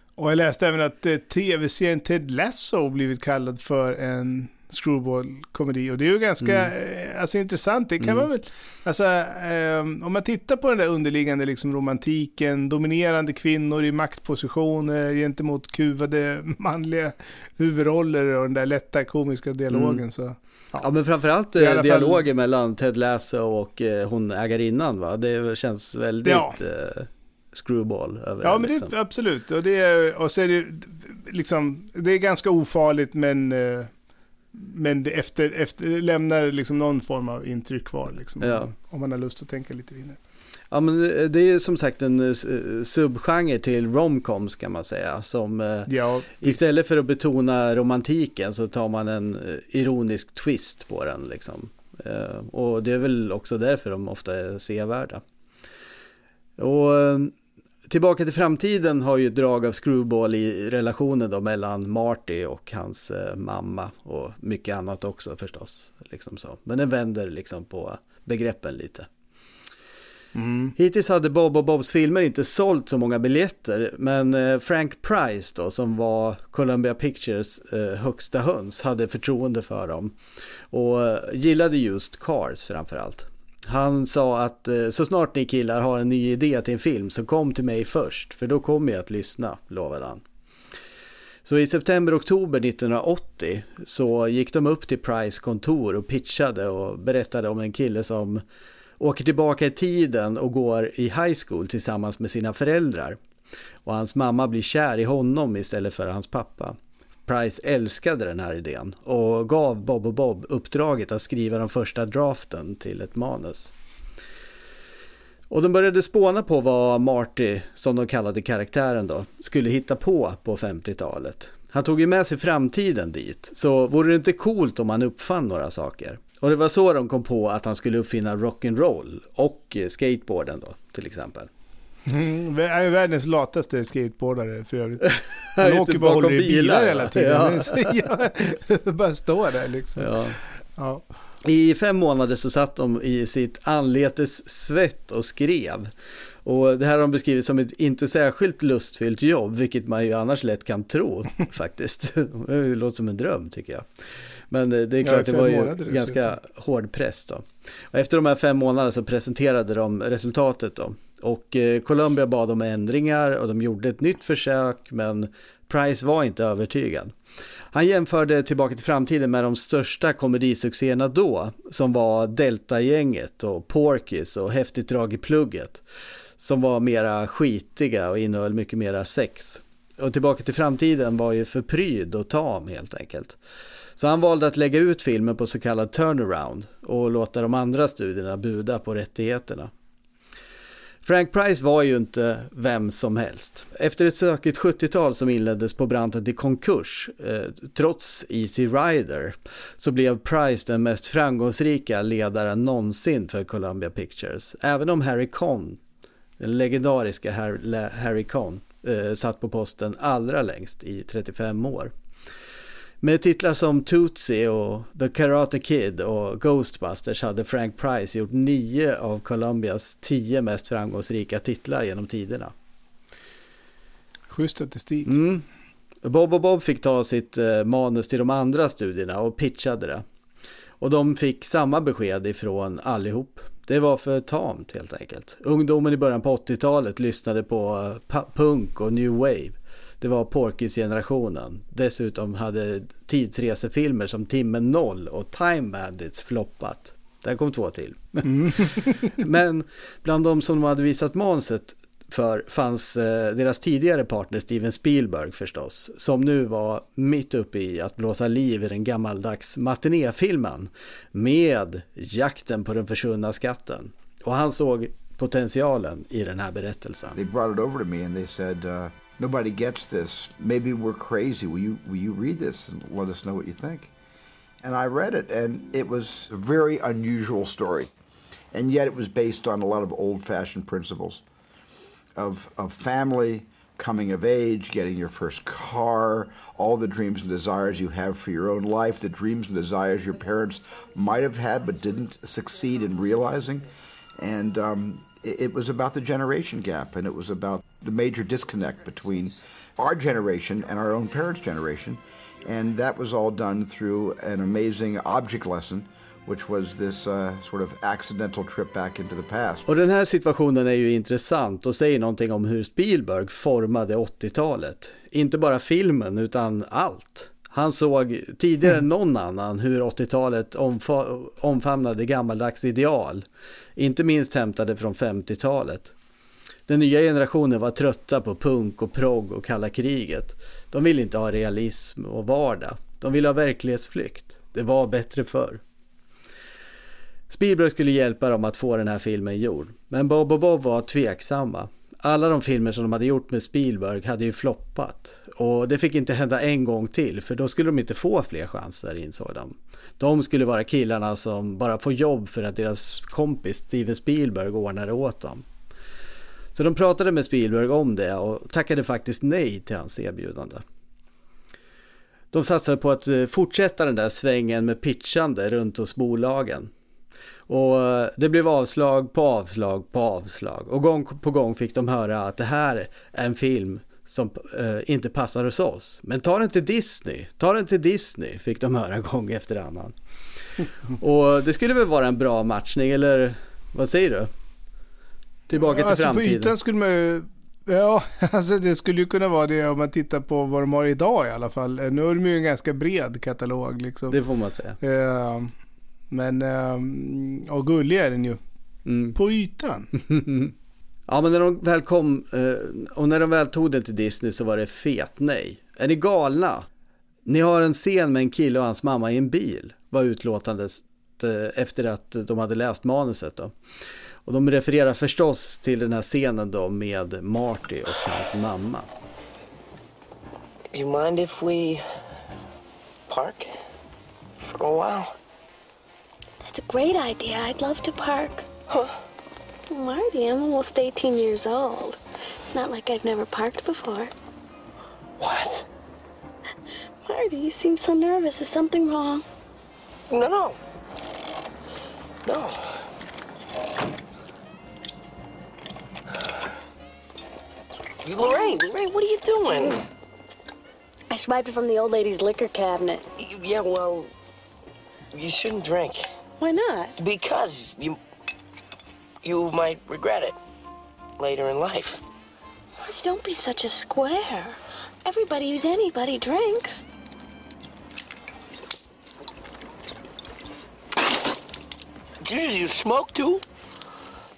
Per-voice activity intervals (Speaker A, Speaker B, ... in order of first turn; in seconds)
Speaker A: 0.2-20.9, 21.6-22.2, 26.2-26.6, 28.4-33.9, 34.5-40.2, 45.9-46.7, 70.3-70.7, 132.1-141.0, 155.0-156.3, 224.3-225.2, 248.2-249.1, 385.5-394.2, 394.8-395.5, 396.1-398.4, 399.1-399.9
Speaker B: 6.4-6.7, 8.0-8.3, 19.7-20.0, 20.8-28.9, 38.4-38.7, 40.7-55.2, 56.6-57.3, 57.9-69.1, 70.7-80.2, 80.7-90.2, 91.4-98.4, 99.0-103.2, 103.8-106.8, 107.3-113.7, 115.5-131.5, 135.1-137.9, 140.0-140.4, 141.4-145.9, 146.4-153.8, 154.5-167.1, 167.7-175.8, 176.4-183.3, 184.0-189.7, 191.0-205.8, 206.4-211.9, 213.0-222.5, 225.0-225.4, 226.0-230.0, 230.8-267.2, 309.6-323.2, 323.8-325.9, 326.7-335.6, 337.3-355.4, 356.5-360.6, 362.3-366.7, 367.5-379.9, 381.0-384.3, 385.5-386.5, 394.1-394.8, 398.9-399.2, 400.0-400.5, 401.1-406.6, 407.2-413.5, 414.2-418.9
Speaker C: 267.1-273.9, 274.6-277.9, 278.5-281.2, 282.1-309.6
Speaker D: 420.7-421.8, 423.1-423.5, 424.4-425.1, 435.2-435.6, 440.1-440.6, 442.2-442.8, 448.0-449.8, 453.2-454.1, 455.1-456.1, 457.0-458.0, 459.2-460.4, 461.2-462.0, 472.2-473.4
Speaker E: 426.4-428.4, 429.7-434.1, 437.0-439.2, 451.1-453.1, 456.4-456.9, 462.8-466.8